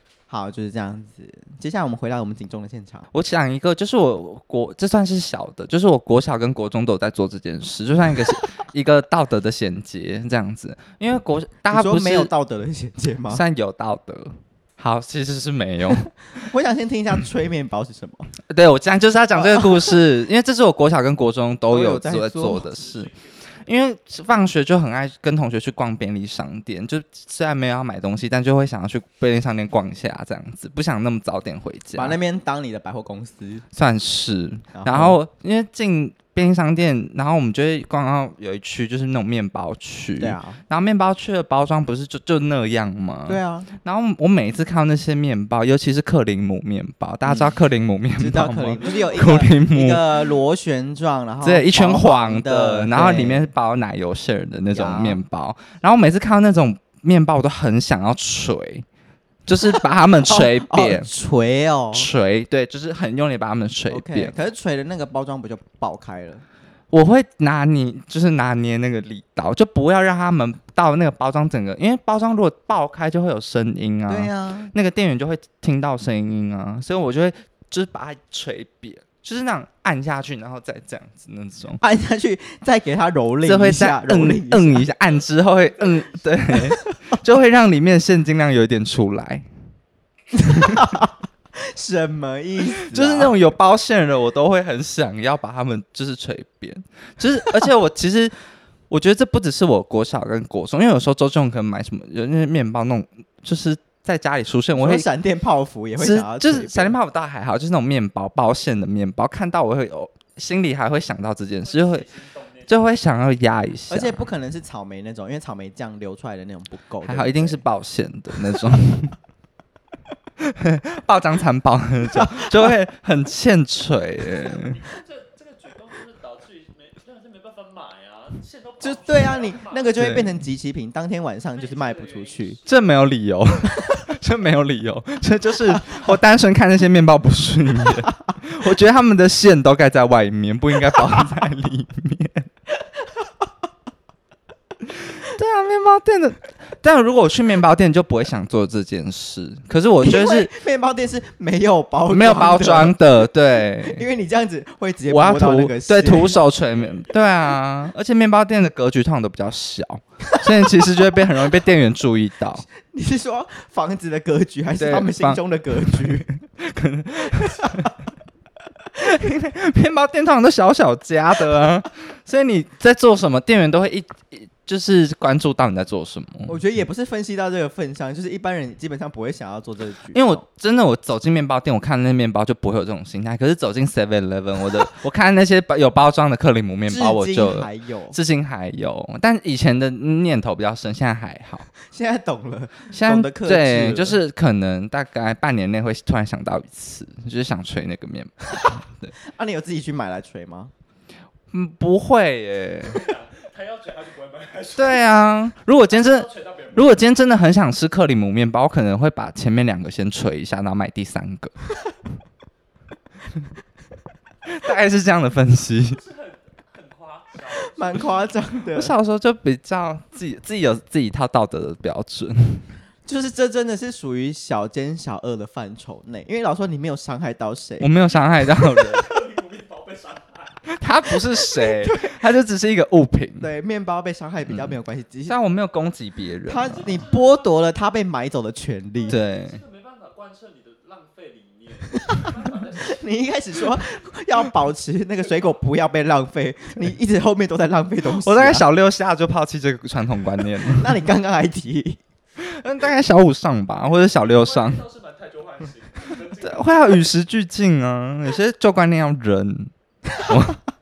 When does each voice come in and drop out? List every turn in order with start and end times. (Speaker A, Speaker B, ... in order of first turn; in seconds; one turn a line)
Speaker A: 0.3-3.1
Speaker B: 3.1-12.3
Speaker A: 11.7-13.4
Speaker B: 13.3-16.1
Speaker A: 16.3-18.3
Speaker B: 18.5-32.2
Speaker A: 19.3-19.9
Speaker A: 21.7-22.7
Speaker C: 22.6-23.7
Speaker A: 31.9-33.6
Speaker B: 33.7-50.0
Speaker A: 34.7-35.2
Speaker A: 40.2-40.6
Speaker A: 43.2-43.7
Speaker A: 47.2-47.5
Speaker A: 48.2-53.5
Speaker B: 51.4-58.9
Speaker A: 54.7-55.2
Speaker B: 59.5-61.1
Speaker A: 60.3-62.1
Speaker B: 61.9-64.3
Speaker A: 63.9-66.4
Speaker B: 66.9-81.8
Speaker A: 74.1-74.7
Speaker A: 81.8-84.9
Speaker B: 83.4-89.4
Speaker C: 85.0-86.6
Speaker A: 90.4-93.3
Speaker B: 92.9-98.3
Speaker B: 98.9-105.1
Speaker A: 104.7-106.9
Speaker B: 106.0-112.1
Speaker C: 111.6-112.8
Speaker B: 112.7-114.2
Speaker A: 113.9-117.6
Speaker B: 117.0-119.2
Speaker B: 120.4-124.8
Speaker A: 122.2-122.7
Speaker C: 124.2-129.9
Speaker A: 128.8-132.6
Speaker B: 130.0-130.3
Speaker C: 131.5-132.8
Speaker B: 132.7-142.5
Speaker A: 135.7-136.1
Speaker A: 140.9-141.3
Speaker A: 142.8-143.5
Speaker B: 145.1-150.5
Speaker A: 150.0-156.3
Speaker B: 152.1-154.0
Speaker B: 155.1-162.6
Speaker C: 156.2-157.6
Speaker A: 160.4-160.7
Speaker A: 162.7-166.3
Speaker B: 164.8-167.9
Speaker A: 167.3-167.9
Speaker B: 169.0-176.6
Speaker A: 176.5-180.4
Speaker B: 180.1-191.7
Speaker A: 186.9-188.2
Speaker A: 191.8-194.2
Speaker B: 192.9-199.1
Speaker A: 198.6-200.7
Speaker B: 201.5-203.0
Speaker C: 202.9-205.1
Speaker B: 204.8-211.5
Speaker C: 205.9-207.0
Speaker B: 214.4-216.0
Speaker C: 215.8-218.4
Speaker A: 217.6-218.9
Speaker B: 218.7-222.7
Speaker A: 223.1-227.9
Speaker B: 227.8-229.1
Speaker C: 228.1-230.6
Speaker B: 230.7-233.5
Speaker A: 231.4-232.2
Speaker A: 233.4-235.4
Speaker B: 234.4-234.8
Speaker B: 235.3-237.0
Speaker A: 236.4-239.2
Speaker C: 236.8-237.6
Speaker C: 238.9-243.2
Speaker B: 239.1-239.6
Speaker A: 241.9-248.6
Speaker B: 248.1-250.9
Speaker A: 250.6-252.0
Speaker B: 252.4-254.8
Speaker C: 254.2-257.0
Speaker B: 256.4-260.6